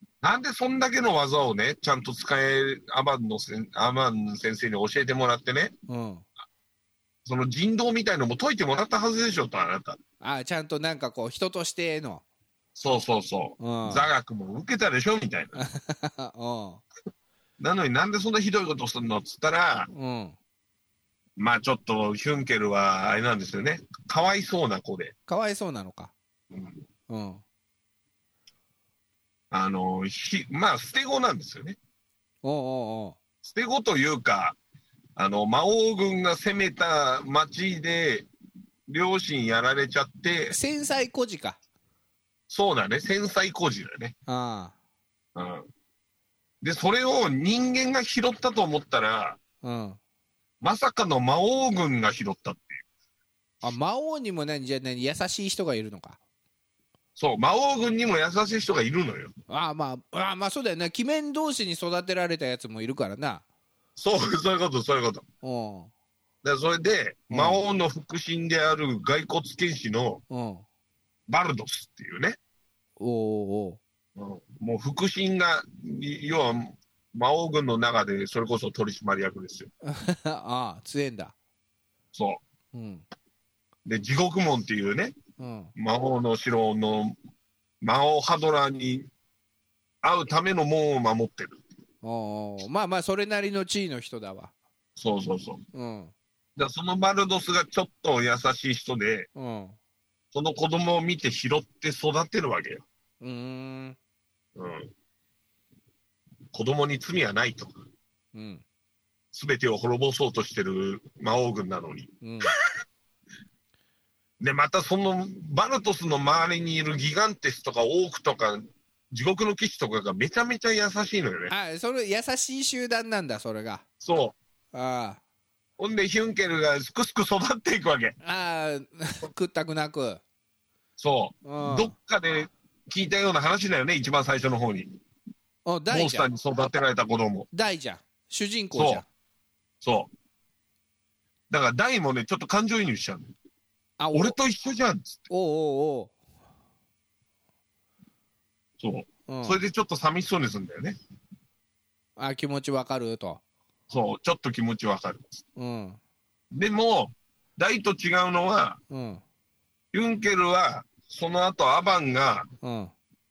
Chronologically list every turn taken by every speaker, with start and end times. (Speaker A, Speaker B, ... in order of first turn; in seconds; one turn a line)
Speaker A: 0.2-5.7
Speaker B: 5.9-6.2
Speaker A: 7.2-10.0
Speaker B: 10.2-12.2
Speaker A: 12.7-15.6
Speaker B: 13.6-14.1
Speaker B: 15.5-16.8
Speaker A: 17.6-19.9
Speaker B: 19.9-20.4
Speaker A: 21.4-25.1
Speaker B: 25.3-26.1
Speaker A: 26.5-26.8
Speaker B: 27.1-27.4
Speaker A: 29.5-31.8
Speaker B: 32.4-33.2
Speaker A: 33.4-34.6
Speaker A: 35.1-38.3
Speaker A: 38.9-40.5
Speaker B: 40.5-41.6
Speaker A: 42.5-44.1
Speaker B: 44.3-44.7
Speaker A: 45.3-45.7
Speaker A: 46.6-49.4
Speaker B: 49.6-50.0
Speaker A: 50.6-52.8
Speaker B: 53.6-56.2
Speaker A: 57.1-59.3
Speaker B: 59.5-63.4
Speaker A: 64.0-65.2
Speaker B: 65.4-65.9
Speaker A: 66.4-70.2
Speaker B: 67.3-67.6
Speaker B: 70.3-70.6
Speaker A: 71.3-72.4
Speaker B: 73.0-73.8
Speaker A: 74.2-79.7
Speaker B: 79.8-81.3
Speaker A: 82.1-82.4
Speaker B: 82.7-83.0
Speaker A: 83.8-85.1
Speaker B: 85.4-85.7
Speaker A: 85.8-87.2
Speaker A: 87.8-89.1
Speaker A: 90.0-91.6
Speaker B: 92.0-94.5
Speaker A: 95.0-95.6
Speaker B: 95.7-96.1
Speaker A: 96.5-99.3
Speaker B: 99.3-99.8
Speaker A: 100.3-102.8
Speaker B: 103.2-104.0
Speaker A: 104.5-104.9
Speaker A: 106.5-107.7
Speaker B: 108.3-108.6
Speaker A: 109.3-112.1
Speaker B: 112.2-112.5
Speaker A: 114.4-121.5
Speaker B: 121.5-123.8
Speaker A: 124.0-124.3
Speaker B: 124.7-125.2
Speaker A: 125.8-128.2
Speaker B: 128.2-130.2
Speaker A: 131.0-134.9
Speaker B: 131.4-131.9
Speaker B: 135.6-136.3
Speaker A: 135.9-137.5
Speaker B: 137.5-139.1
Speaker A: 138.7-139.0
Speaker A: 139.8-140.1
Speaker A: 141.5-143.3
Speaker B: 144.0-144.3
Speaker A: 144.1-145.2
Speaker B: 145.3-146.1
Speaker A: 148.8-150.9
Speaker B: 149.3-149.6
Speaker B: 152.2-153.4
Speaker A: 153.9-155.4
Speaker B: 155.6-156.0
Speaker A: 156.5-158.8
Speaker B: 158.9-159.2
Speaker A: 159.9-162.5
Speaker B: 162.6-162.9